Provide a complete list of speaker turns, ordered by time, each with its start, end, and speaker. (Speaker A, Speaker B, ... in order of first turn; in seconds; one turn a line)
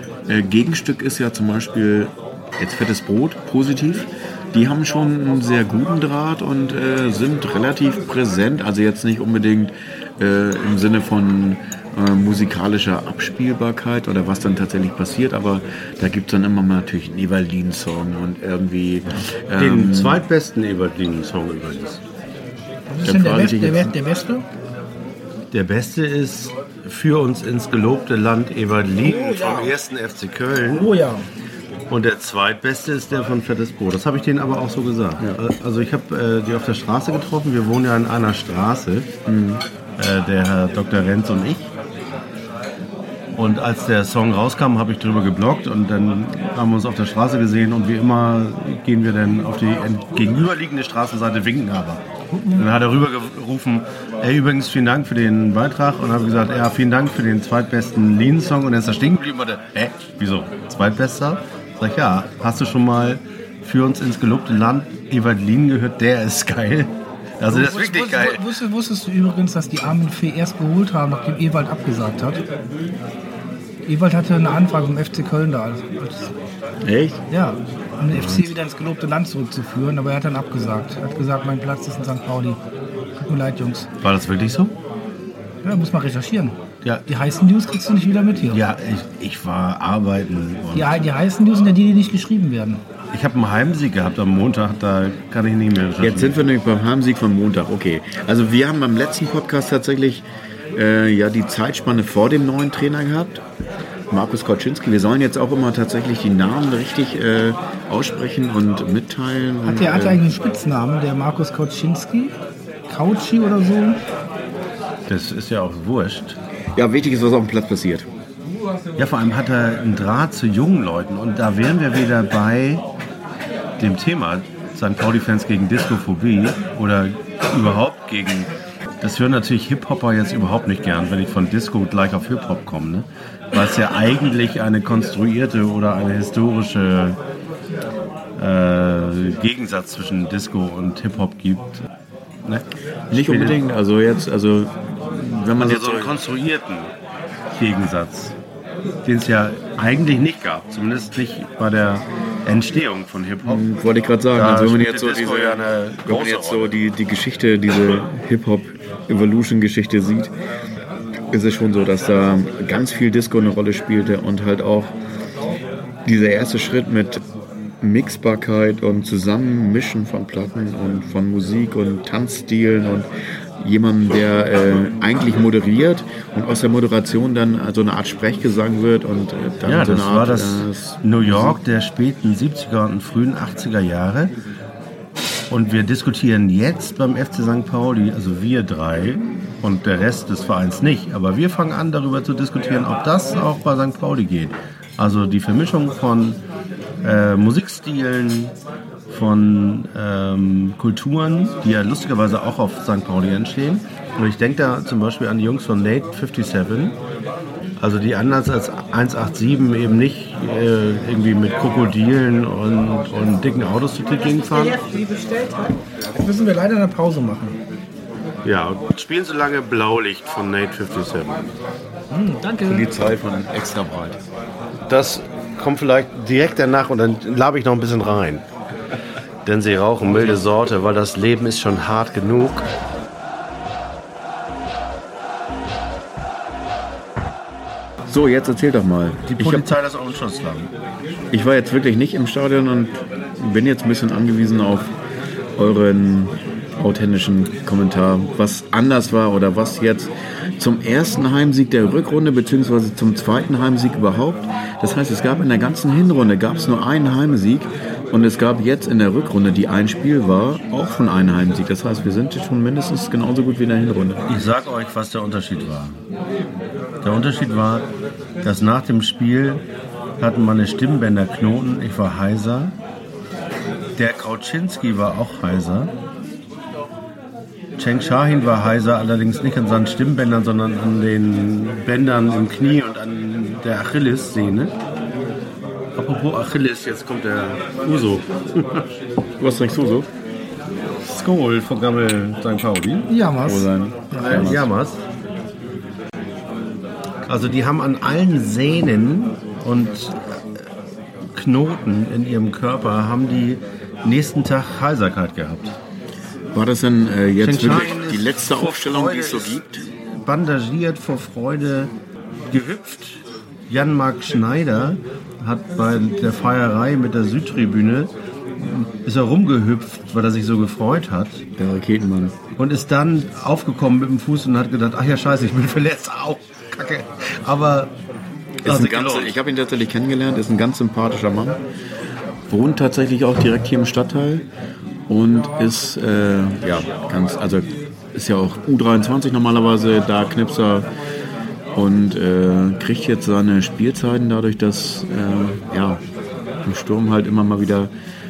Speaker A: 0.3-20.2
Speaker B: 19.6-22.0
Speaker C: 22.9-24.4
Speaker A: 23.0-23.9
Speaker B: 25.5-30.9
Speaker C: 29.0-29.8
Speaker C: 30.7-31.3
Speaker B: 31.9-39.1
Speaker A: 39.3-39.6
Speaker B: 40.0-41.7
Speaker B: 43.3-68.5
Speaker C: 52.3-52.6
Speaker C: 67.5-72.4
Speaker C: 73.9-76.3
Speaker A: 76.8-77.2
Speaker C: 77.3-82.6
Speaker B: 78.1-78.5
Speaker C: 83.2-83.9
Speaker B: 84.0-84.8
Speaker C: 85.6-86.6
Speaker C: 87.1-88.6
Speaker B: 88.5-91.0
Speaker C: 90.7-92.8
Speaker B: 93.1-96.5
Speaker A: 96.0-103.4
Speaker A: 104.1-110.4
Speaker C: 109.6-112.3
Speaker C: 112.9-114.0
Speaker B: 115.1-116.4
Speaker A: 116.8-118.1
Speaker B: 119.0-122.8
Speaker B: 123.8-128.5
Speaker B: 129.0-137.2
Speaker B: 138.4-141.9
Speaker B: 142.4-143.6
Speaker A: 143.1-146.2
Speaker B: 145.6-146.9
Speaker B: 147.5-148.4
Speaker B: 149.1-153.7
Speaker A: 153.4-160.3
Speaker B: 154.3-156.8
Speaker A: 161.3-164.9
Speaker A: 166.1-167.2
Speaker A: 167.8-173.1
Speaker A: 173.6-181.6
Speaker B: 179.7-184.3
Speaker B: 185.5-196.4
Speaker B: 197.0-198.6
Speaker B: 199.1-207.0
Speaker B: 207.8-214.9
Speaker C: 215.0-217.6
Speaker B: 218.4-221.5
Speaker C: 222.1-222.9
Speaker A: 222.7-224.2
Speaker B: 224.9-228.4
Speaker B: 229.4-232.7
Speaker A: 238.1-239.7
Speaker B: 239.3-240.7
Speaker A: 241.3-244.9
Speaker A: 245.6-264.3
Speaker B: 264.3-266.0
Speaker B: 267.0-267.9
Speaker B: 268.4-269.6
Speaker B: 270.2-272.8
Speaker B: 274.0-275.9
Speaker B: 277.8-284.8
Speaker B: 286.0-288.9
Speaker A: 289.4-290.1
Speaker B: 291.0-293.1
Speaker C: 293.1-294.5
Speaker A: 293.4-294.7
Speaker B: 294.1-295.0
Speaker B: 297.3-300.7
Speaker B: 301.3-305.7
Speaker A: 306.5-309.8
Speaker B: 307.4-311.9
Speaker B: 312.5-321.4
Speaker A: 321.6-322.4
Speaker B: 322.6-327.9
Speaker B: 328.6-329.3
Speaker A: 328.6-331.6
Speaker A: 332.5-334.5
Speaker A: 335.1-340.9
Speaker A: 341.8-346.0
Speaker A: 346.6-347.9